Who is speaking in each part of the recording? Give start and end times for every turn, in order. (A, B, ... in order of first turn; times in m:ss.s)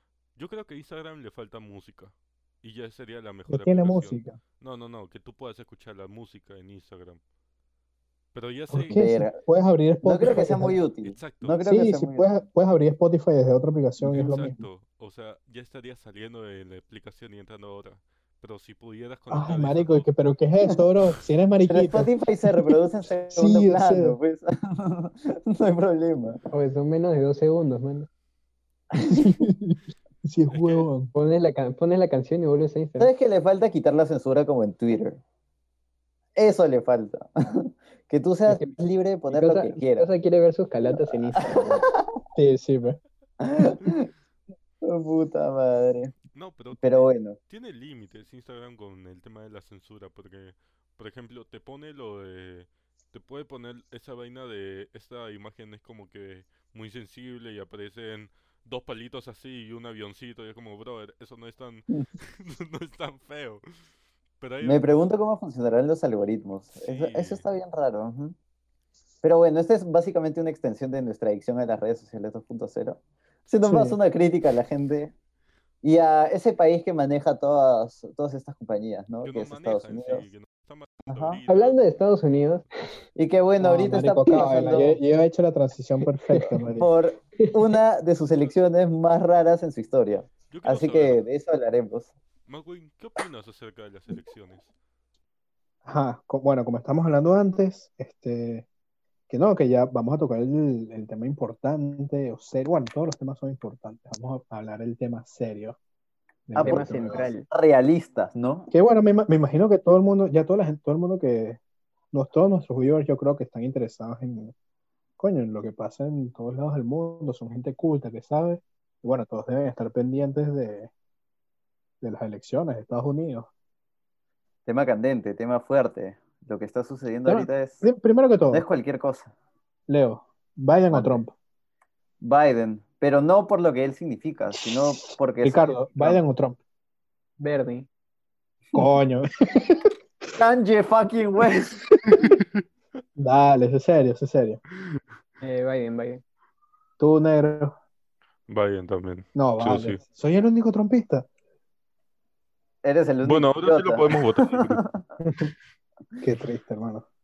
0:00.4-0:07.2 A
0:03.5-0:04.4 B
0:08.3-0:09.0 A
0:08.7-0:10.8 B
0:08.9-0:09.4 C
0:10.0-0:12.4 C
0:11.0-0:11.6 A
0:11.6-0:14.6 B
0:14.0-0:20.1 A
0:19.3-0:22.7 B
0:21.7-0:26.4 C
0:23.3-0:24.2 B
0:26.5-0:28.1 D
0:28.9-0:29.3 C
0:29.0-0:31.1 B
0:30.5-0:30.9 A
0:31.1-0:33.1 D
0:33.0-0:35.2 C
0:36.4-0:40.1 C
0:38.5-0:38.8 D
0:39.3-0:41.9 D
0:40.9-0:42.0 C
0:42.4-0:43.0 B
0:43.4-0:44.1 C
0:44.8-0:46.1 C
0:46.3-1:03.6 A
0:46.8-0:47.4 C
1:04.4-1:04.8 A
1:04.6-1:08.4 C
1:06.8-1:07.4 A
1:09.2-1:15.1 C
1:13.6-1:14.0 B
1:15.8-1:20.3 C
1:19.2-1:21.9 A
1:21.1-1:21.4 C
1:21.5-1:22.6 D
1:23.2-1:25.0 C
1:23.6-1:26.9 B
1:24.3-1:24.9 D
1:26.3-1:26.6 D
1:26.8-1:32.1 C
1:30.5-1:31.2 A
1:32.4-1:34.7 A
1:35.8-1:38.6 B
1:39.3-1:45.8 B
1:46.5-1:47.3 B
1:46.5-1:48.7 C
1:46.6-1:47.4 D
1:48.7-1:51.6 B
1:52.1-1:54.5 B
1:55.2-2:00.9 B
2:02.0-2:03.5 B
2:04.6-2:07.8 C
2:07.2-2:08.6 B
2:08.5-2:09.3 C
2:09.9-2:11.3 B
2:10.9-2:11.2 C
2:12.2-2:16.2 C
2:15.4-2:16.6 B
2:17.4-2:17.9 D
2:18.7-2:19.9 B
2:20.4-2:21.9 C
2:22.2-2:22.6 A
2:23.2-2:24.6 B
2:25.4-2:26.2 D
2:27.0-2:27.8 B
2:28.5-2:30.0 A
2:29.4-2:31.3 B
2:32.8-2:34.9 C
2:33.2-2:34.8 A
2:36.2-2:37.0 B